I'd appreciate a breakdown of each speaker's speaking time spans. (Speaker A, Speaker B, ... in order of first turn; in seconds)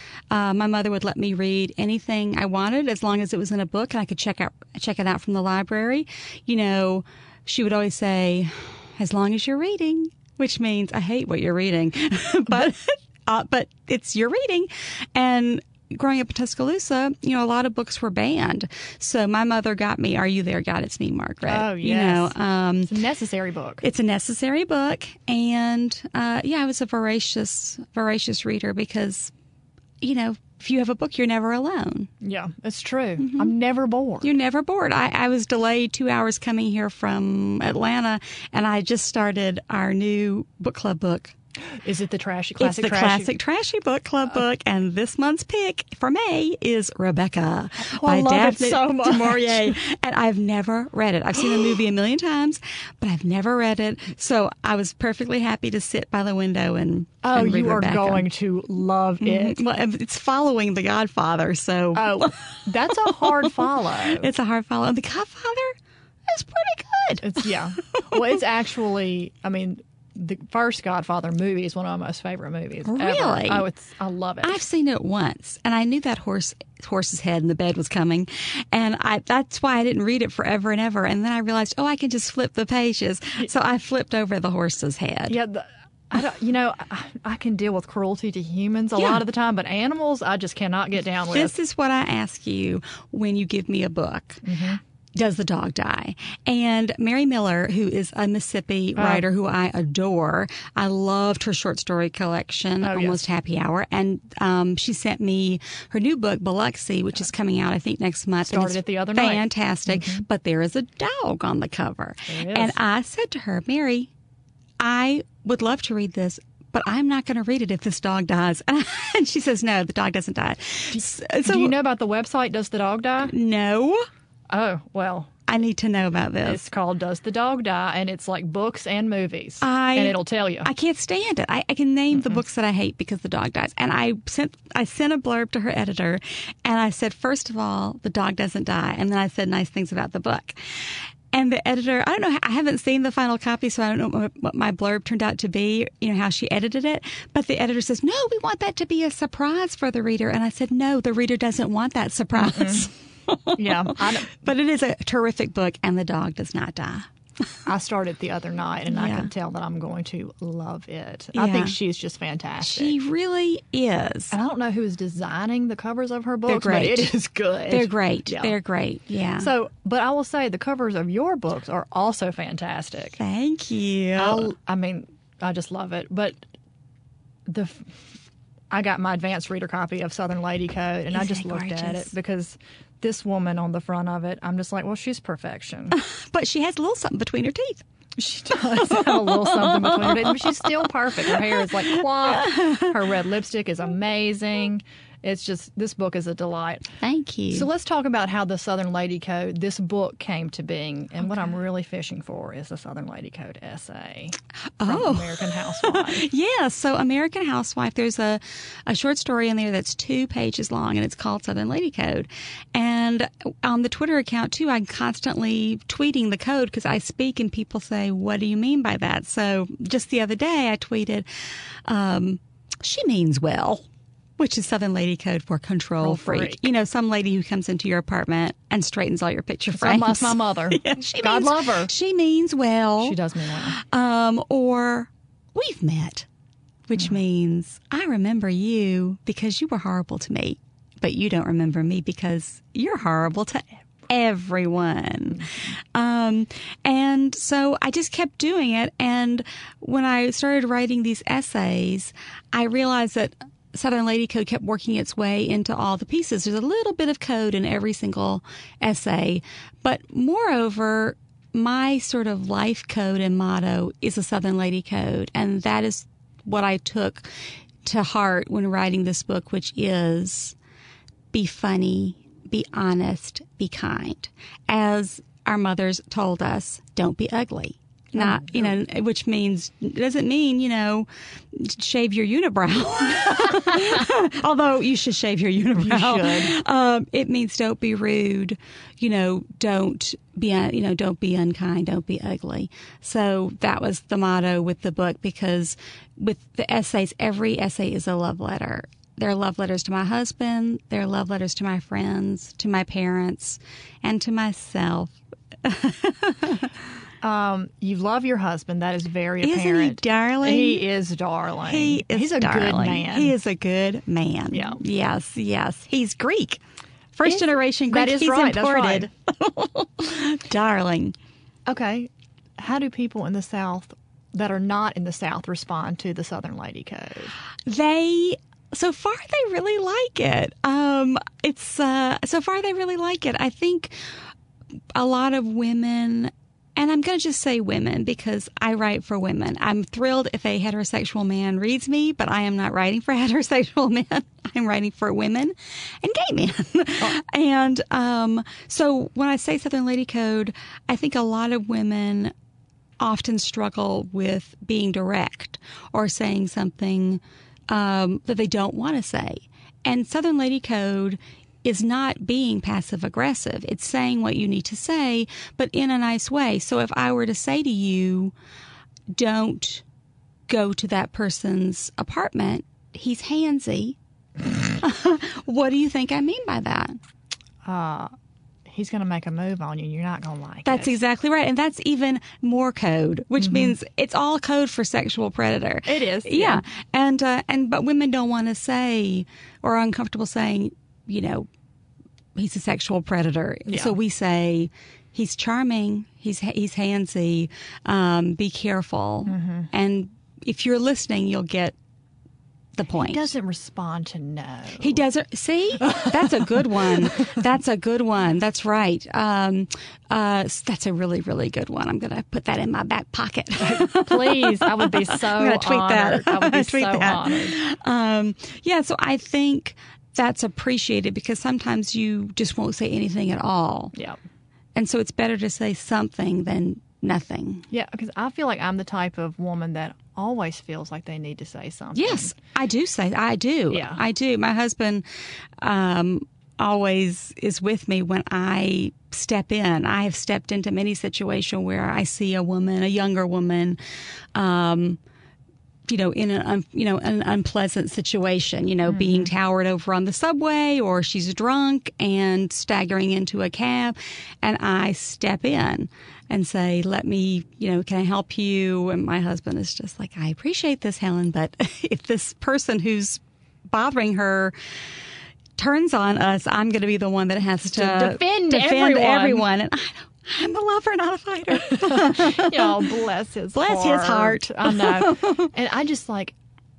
Speaker A: 0.3-22.9, 23.8-29.3, 30.0-32.1, 33.2-33.5, 34.2-41.4, 42.6-58.3, 59.2-62.4, 63.0-65.8, 66.3-67.5, 68.0-68.4, 72.8-73.7, 74.4-85.4, 91.3-94.4, 95.2-114.1, 114.8-121.8, 123.3-124.0, 125.5-126.6, 129.6-157.1, 158.9-159.3, 161.3-161.8, 162.6-164.3, 166.5-167.1, 167.7-169.5, 173.2-174.5, 181.1-182.1, 185.9-187.8, 188.8-190.7, 191.3-192.9, 197.0-197.7, 204.8-221.3, 221.8-223.9, 224.4-236.3, 236.9-267.3, 267.8-270.6, 271.3-306.7, 309.4-310.8, 311.6-316.6, 317.1-321.2, 327.7-333.9, 334.9-352.3, 353.0-368.3, 369.1-369.8, 370.5-374.0, 374.7-377.0, 380.7-391.5, 392.4-401.8, 402.8-403.3, 404.8-423.9, 424.8-427.7, 431.9-435.0, 435.6-443.8, 444.4-445.0, 445.9-464.5, 465.6-472.9, 473.5-475.5
Speaker B: 21.5-22.3, 22.9-23.8, 32.2-34.3, 41.8-43.3, 47.8-49.8, 57.2-59.6, 62.0-64.3, 67.2-74.6, 85.3-91.5, 94.4-94.8, 99.0-99.2, 102.8-103.2, 108.5-110.2, 112.3-112.8, 120.9-123.3, 124.5-125.3, 126.4-130.7, 152.3-152.9, 153.6-154.4, 157.7-163.0, 164.3-168.6, 169.4-173.2, 174.2-176.4, 177.5-178.0, 178.7-186.0, 188.2-196.9, 197.5-206.3, 226.0-226.7, 229.7-231.9, 233.0-233.8, 278.1-278.7, 285.8-286.5, 307.2-313.3, 314.5-314.8, 317.2-319.1, 321.7-327.3, 377.6-378.1, 378.7-381.0, 383.4-383.8, 385.9-386.6, 393.7-394.0, 399.3-399.7, 402.9-405.0, 413.6-417.6, 427.7-432.3, 433.7-434.0, 448.9-449.3, 467.7-469.5, 471.6-476.4